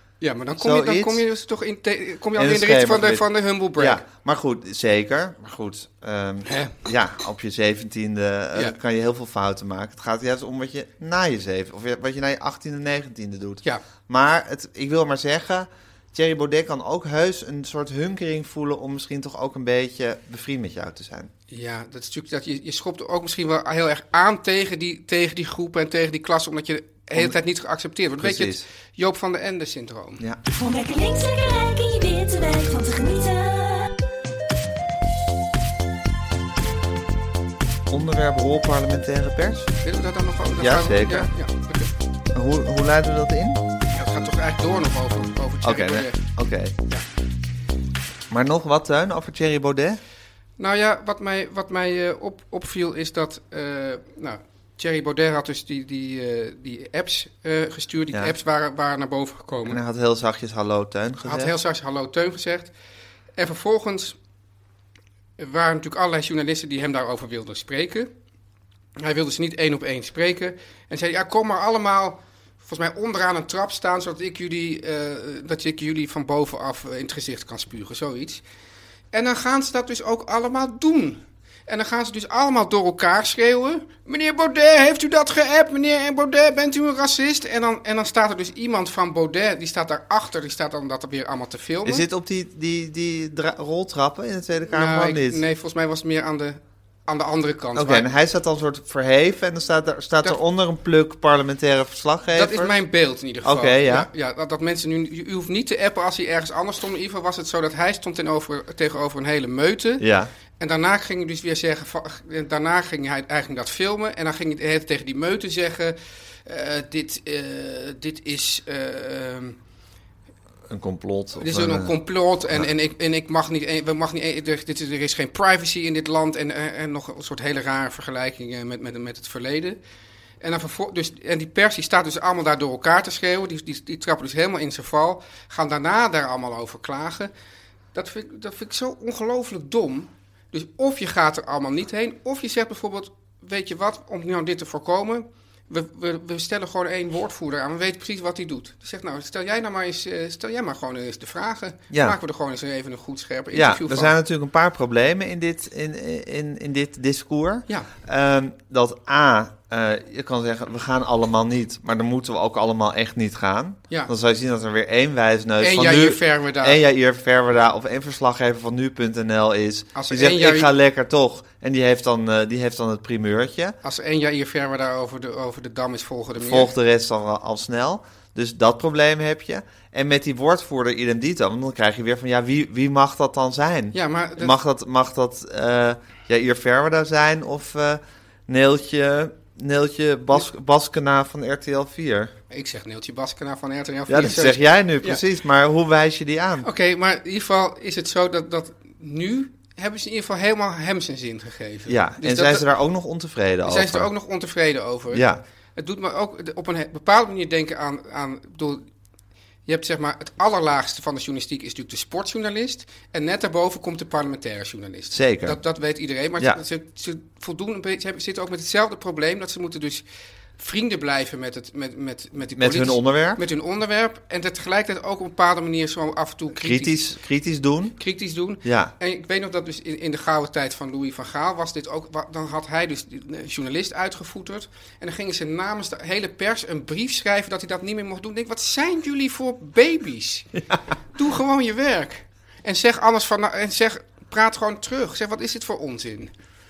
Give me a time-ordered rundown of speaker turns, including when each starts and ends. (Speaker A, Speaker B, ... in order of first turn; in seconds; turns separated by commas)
Speaker A: 0.2-4.0, Speaker B: 0.6-1.2, Speaker B: 2.3-21.3, Speaker A: 6.4-6.7, Speaker A: 21.5-30.2, Speaker B: 28.2-28.6, Speaker C: 30.5-34.0, Speaker B: 37.9-39.7, Speaker A: 39.8-41.9, Speaker B: 40.5-41.3, Speaker B: 42.3-43.6, Speaker A: 43.9-46.2, Speaker B: 45.6-46.7, Speaker B: 48.3-50.0, Speaker A: 50.6-59.8, Speaker B: 59.6-61.5, Speaker A: 61.2-62.7, Speaker A: 63.4-64.2, Speaker A: 65.4-68.1, Speaker A: 69.0-78.4, Speaker A: 79.1-92.0, Speaker B: 91.8-95.4, Speaker A: 94.7-98.1, Speaker B: 97.7-102.8, Speaker A: 102.3-110.0, Speaker B: 103.4-104.1, Speaker B: 110.0-110.3, Speaker A: 110.6-119.6, Speaker B: 120.7-121.9, Speaker A: 121.4-129.8, Speaker A: 130.4-137.3, Speaker A: 137.9-154.1, Speaker B: 151.9-152.2, Speaker B: 153.5-173.8, Speaker A: 165.6-166.8, Speaker A: 169.9-170.7, Speaker A: 173.8-176.7, Speaker B: 176.3-192.3, Speaker A: 183.9-184.5, Speaker A: 192.5-195.2, Speaker B: 194.1-196.7, Speaker A: 196.6-202.7, Speaker B: 201.9-204.1, Speaker A: 203.6-208.8, Speaker B: 205.1-205.4, Speaker A: 209.7-220.0, Speaker B: 215.1-215.6, Speaker A: 220.6-226.9, Speaker B: 222.5-223.4, Speaker B: 226.5-228.0, Speaker A: 228.0-240.5, Speaker B: 228.6-228.9, Speaker A: 241.1-246.3